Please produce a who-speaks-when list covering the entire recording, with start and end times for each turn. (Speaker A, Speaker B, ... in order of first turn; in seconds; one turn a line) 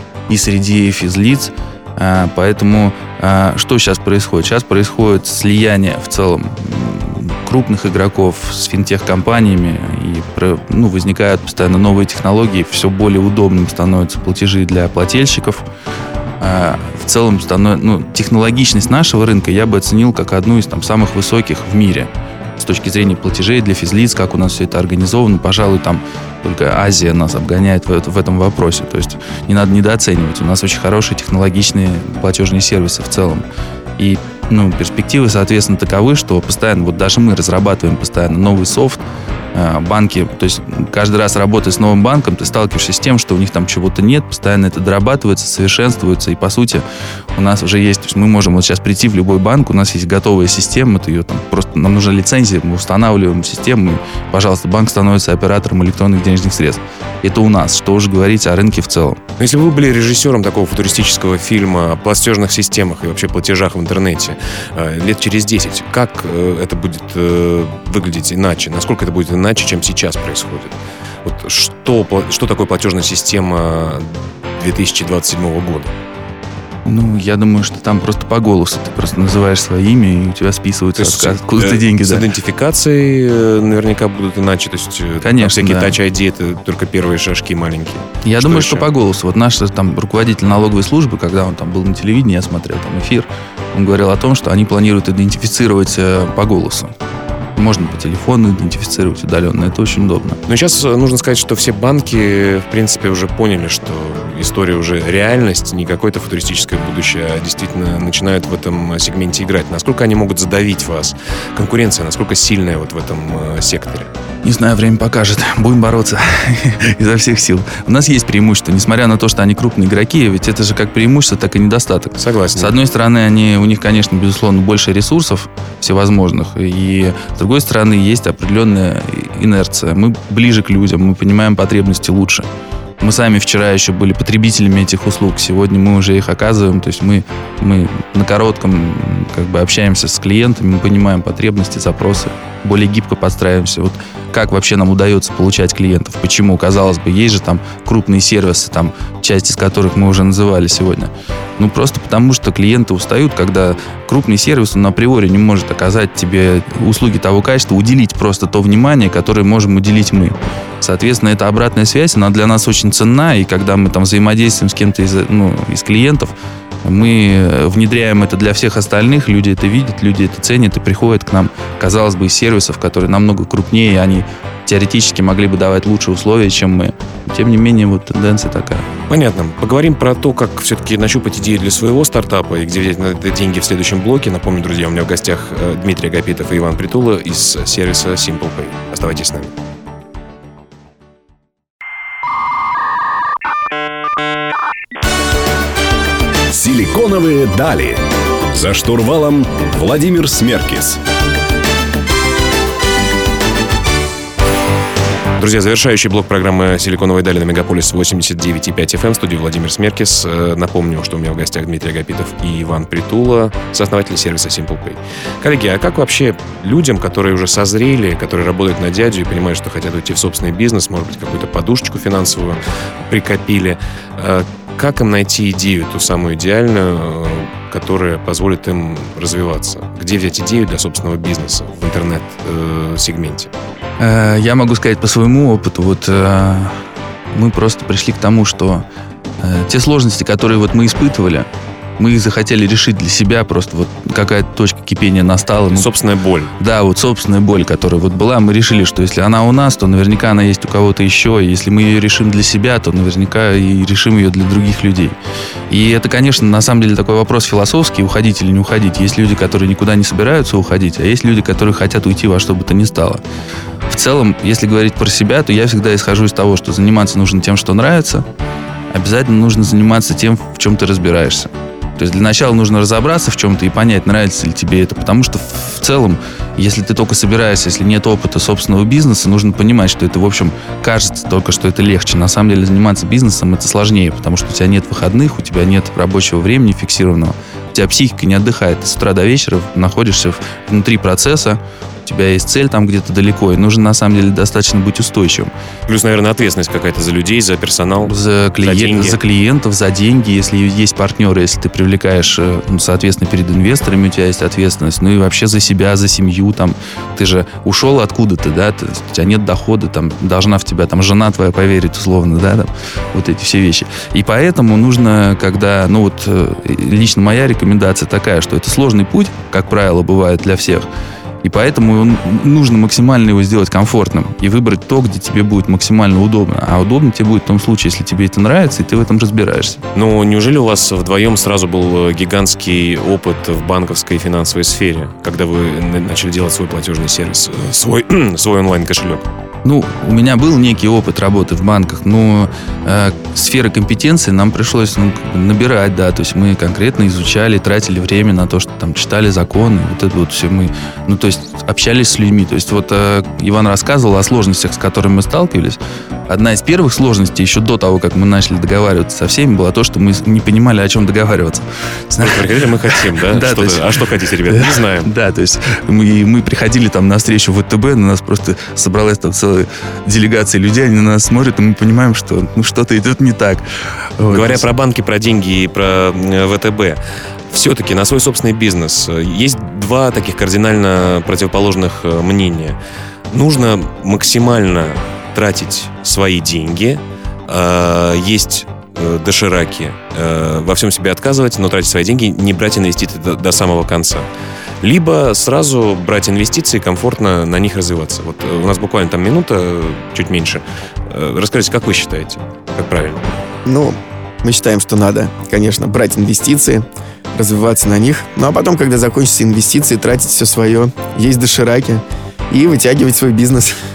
Speaker A: 0.3-15.6
Speaker A: 16.4-33.4
Speaker A: 34.0-39.0
Speaker A: 39.5-59.2
Speaker B: 59.4-76.0
Speaker A: 76.8-82.3
Speaker B: 81.0-88.9
Speaker A: 85.2-86.0
Speaker A: 88.2-96.9
Speaker A: 97.6-100.4
Speaker B: 100.5-114.1
Speaker A: 114.4-132.5
Speaker B: 122.2-122.8
Speaker A: 133.0-178.9
Speaker B: 179.1-189.5
Speaker C: 196.5-198.0
Speaker C: 198.5-201.0
Speaker B: 205.4-233.5
Speaker A: 234.0-238.8
Speaker A: 239.4-245.9
Speaker B: 245.7-246.5
Speaker A: 246.6-255.2
Speaker A: 255.7-263.2
Speaker A: 263.9-268.2
Speaker A: 268.9-295.5
Speaker B: 295.9-299.2
Speaker A: 298.1-320.9
Speaker A: 321.4-329.8
Speaker B: 329.9-339.3
Speaker A: 339.6-374.7
Speaker B: 362.2-365.1
Speaker B: 374.3-377.0
Speaker B: 377.5-382.8
Speaker B: 383.3-394.3
Speaker B: 394.8-403.2
Speaker D: 403.6-413.8